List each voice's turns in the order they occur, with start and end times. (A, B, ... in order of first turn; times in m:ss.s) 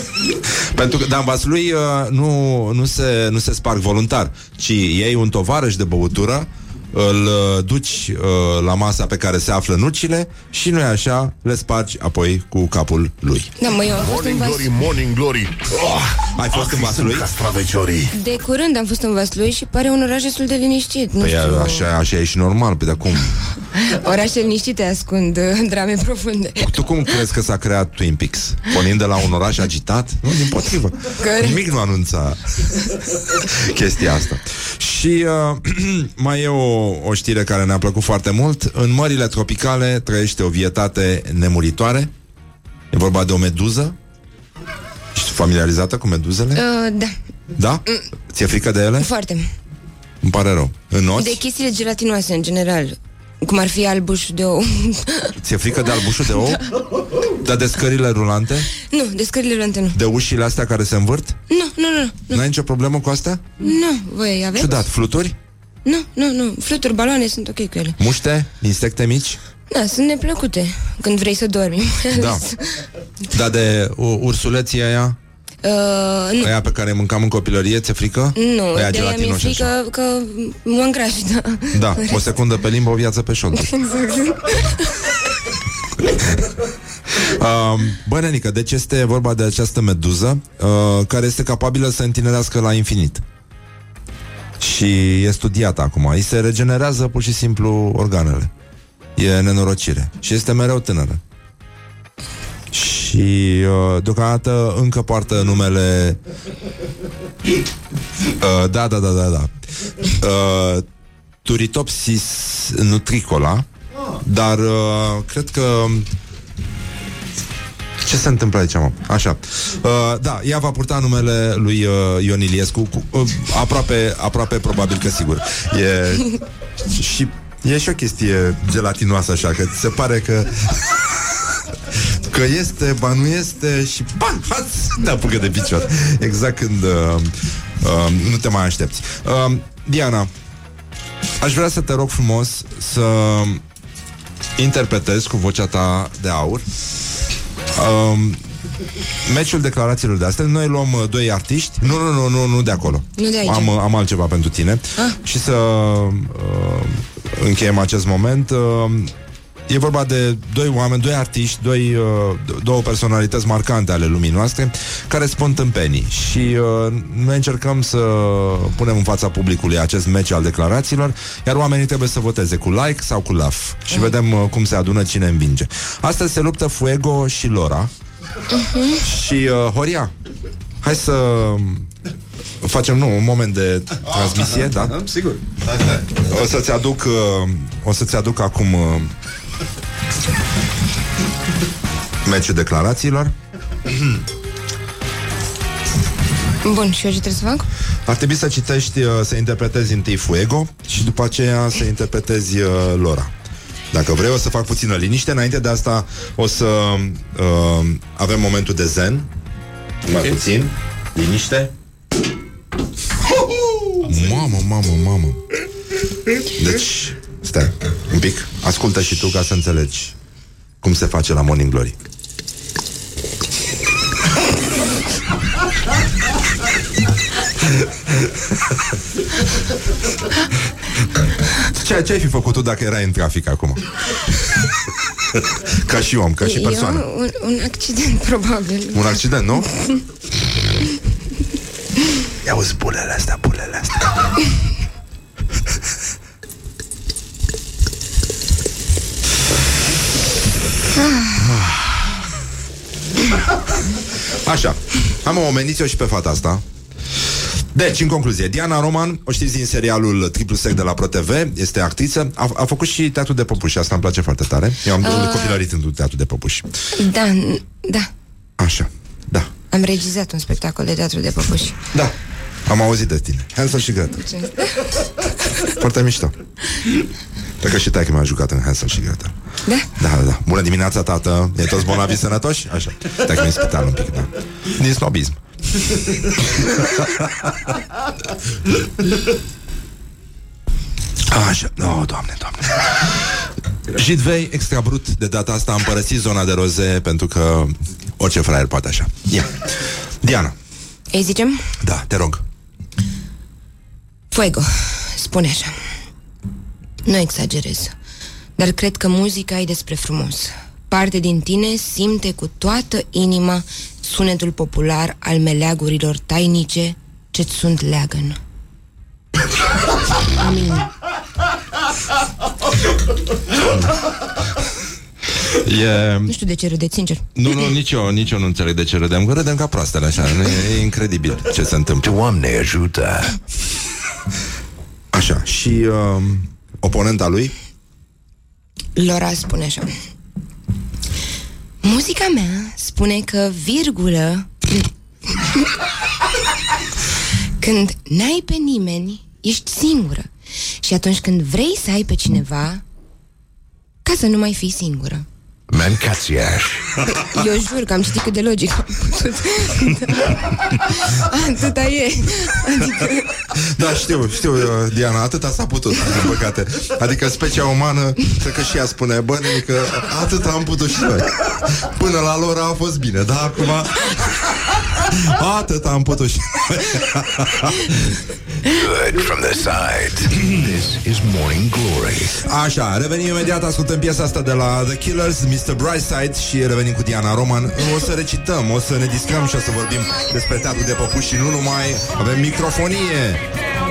0:00.3-0:13.5 A
0:13.6-0:14.7 B
0:13.9-0:15.8 C
0:15.7-0:17.3 A
0:16.4-0:18.2 C
0:18.1-0:21.9 B
0:21.2-0:23.4 A
0:23.7-0:27.2 B
0:26.6-0:42.1 A
0:31.2-0:31.6 B
0:42.9-0:44.0 A
0:45.1-0:46.6 A
0:46.5-0:47.2 B
0:47.6-0:49.1 A
0:49.0-0:49.5 B
0:50.2-0:51.4 A
0:51.2-0:55.4 B
0:55.4-0:56.6 A
0:57.4-0:58.7 A
0:58.8-1:00.0 B
0:59.9-1:01.4 A
1:01.5-1:02.4 B
1:02.3-1:03.5 A
1:03.6-1:04.8 B
1:04.6-1:05.4 A
1:05.8-1:08.0 B
1:08.0-1:09.4 A
1:09.7-1:12.8 B
1:12.1-1:12.4 A
1:13.3-1:15.2 A
1:15.6-1:16.5 B
1:16.4-1:19.7 A
1:18.4-1:22.2 B
1:21.7-1:23.7 A
1:23.6-1:25.1 B
1:26.0-1:26.5 A
1:27.1-1:33.2 A
1:34.6-1:38.5 A
1:39.2-1:41.2 A
1:42.7-1:46.2 A
1:48.4-1:50.8 A
1:51.4-1:53.7 A
1:54.2-1:56.1 A
1:58.0-2:20.3 A
2:21.4-2:23.6 A
2:24.6-2:26.7 A
2:27.7-2:28.4 A
2:29.2-2:39.1 A
2:33.2-2:33.7 B
2:39.7-2:57.9 A
2:58.5-2:59.0 B
2:59.0-3:00.1 A
3:00.8-3:01.9 A
3:02.6-3:05.1 A
3:05.7-3:09.1 A
3:12.2-3:14.2 A
3:16.6-3:17.7 B
3:18.1-3:23.3 A
3:23.9-3:29.3 A
3:30.0-3:31.7 A
3:34.0-3:35.4 A
3:36.5-3:40.2 A
3:40.8-3:42.0 A
3:47.8-3:48.3 A
3:51.7-3:54.5 A
3:55.3-3:57.0 A
3:56.4-3:59.2 B
3:58.9-3:59.7 A
3:59.8-4:00.0 B
4:02.4-4:04.3 A
4:11.0-4:11.5 B
4:11.4-4:12.3 A
4:14.3-4:16.6 A
4:17.7-4:26.7 A
4:25.0-4:25.6 B
4:27.0-4:28.1 B
4:28.6-4:29.5 A
4:29.7-4:31.8 B
4:32.7-4:34.2 A
4:34.2-4:35.0 B
4:35.6-4:36.4 A
4:37.6-4:39.4 A
4:39.7-4:39.9 B
4:40.0-4:47.5 A
4:51.3-4:53.2 A
4:53.9-5:00.6 A
5:01.1-5:01.7 B
5:01.8-5:02.4 A
5:04.3-5:05.8 B
5:07.0-5:08.0 B
5:08.6-5:18.4 B
5:20.4-5:20.9 B
5:25.4-5:26.3 A
5:26.3-5:27.3 B
5:27.4-5:32.1 A
5:32.0-5:33.4 D
5:35.1-5:37.5 A
5:39.0-5:39.9 B
5:41.8-5:45.7 B
5:47.6-5:52.8 B
5:54.0-5:55.3 B
5:55.7-5:57.0 D
5:57.1-6:03.4 B
6:03.5-6:18.2 A
6:18.7-6:22.4 D
6:22.4-6:33.4 A